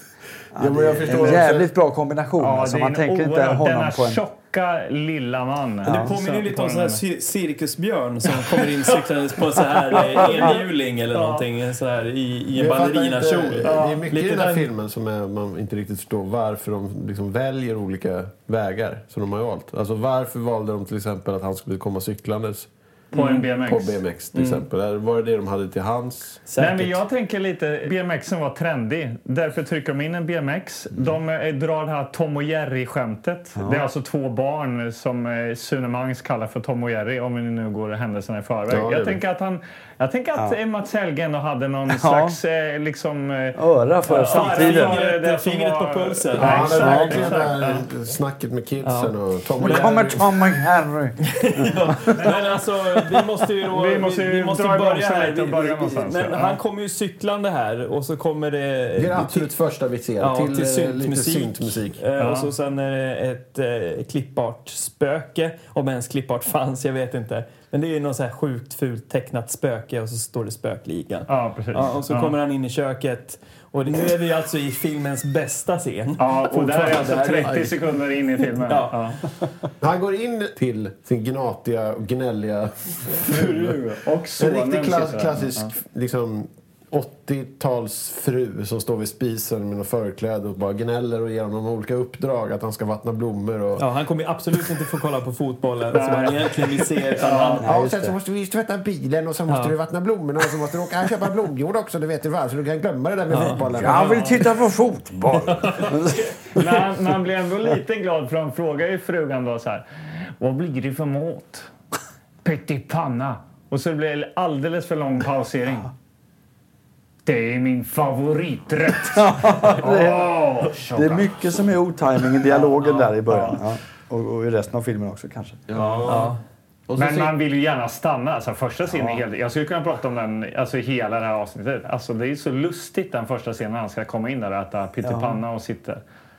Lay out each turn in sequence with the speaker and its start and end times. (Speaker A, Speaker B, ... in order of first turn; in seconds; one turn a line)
Speaker A: 0.5-4.2
Speaker B: 0.6-1.7
Speaker C: 1.1-1.4
Speaker C: 2.4-7.0
Speaker A: 5.8-6.1
Speaker D: 5.8-14.7
Speaker C: 10.2-10.6
Speaker C: 11.1-11.4
Speaker B: 12.6-22.7
Speaker C: 13.6-14.1
Speaker D: 23.1-23.5
Speaker C: 23.1-24.0
Speaker B: 23.4-26.4
Speaker D: 24.3-24.6
Speaker D: 26.5-27.0
Speaker C: 26.6-47.9
Speaker A: 33.6-33.9
Speaker B: 38.7-39.2
Speaker A: 41.9-42.4
Speaker A: 43.5-45.0
Speaker D: 44.1-47.2
Speaker B: 46.3-50.3
Speaker A: 46.7-47.3
Speaker D: 48.8-50.0
Speaker A: 49.6-52.4
Speaker D: 51.3-59.5
Speaker C: 53.7-56.6
Speaker B: 59.0-62.0
Speaker D: 60.2-77.5
Speaker C: 62.2-62.5
Speaker C: 71.3-72.4
Speaker C: 76.2-79.2
Speaker B: 76.6-77.7
Speaker D: 78.7-79.0
Speaker B: 79.8-83.8
Speaker C: 83.1-85.7
Speaker B: 84.4-93.9
Speaker D: 93.8-97.7
Speaker C: 95.9-97.7
Speaker A: 97.6-98.2
Speaker B: 97.6-104.4
Speaker D: 99.5-99.8
Speaker D: 103.3-103.6
Speaker A: 103.7-106.4
Speaker C: 103.8-104.4
Speaker D: 105.6-105.9
Speaker C: 106.5-109.8
Speaker C: 110.4-111.7
Speaker C: 112.4-115.9
Speaker C: 117.3-121.3
Speaker A: 119.1-125.7
Speaker C: 122.5-123.6
Speaker B: 125.7-126.3
Speaker D: 126.0-126.4
Speaker B: 126.9-127.3
Speaker C: 127.0-136.0
Speaker A: 128.9-129.2
Speaker A: 135.0-135.4